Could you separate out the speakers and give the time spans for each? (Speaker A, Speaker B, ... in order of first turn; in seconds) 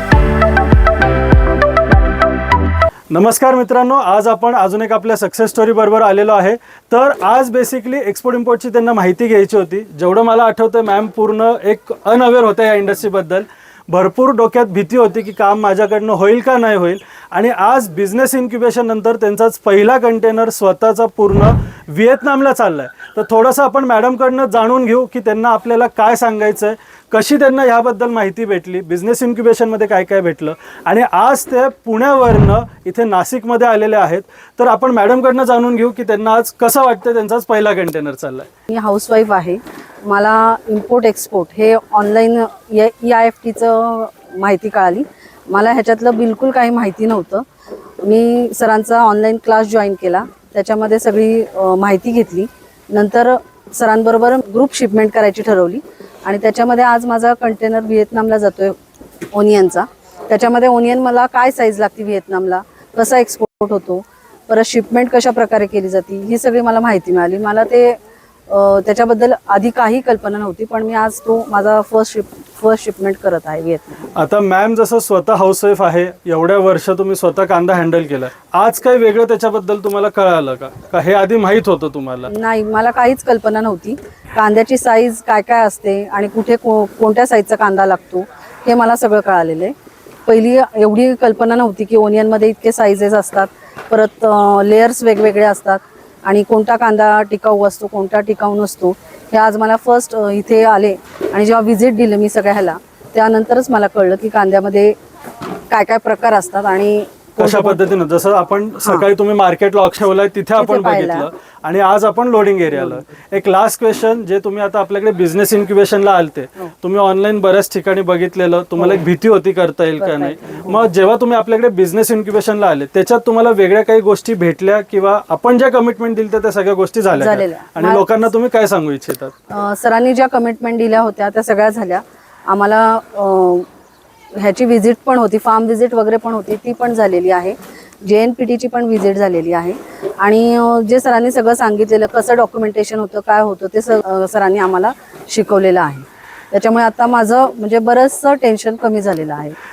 Speaker A: 3.1-38.5, 74.1-82.3, 107.4-129.3
Speaker B: 38.7-47.5, 48.0-58.8, 59.3-74.1, 82.3-89.8, 90.2-105.0, 105.7-107.8, 110.6-111.3, 120.0-120.8, 127.2-128.1, 129.5-133.7, 134.3-149.6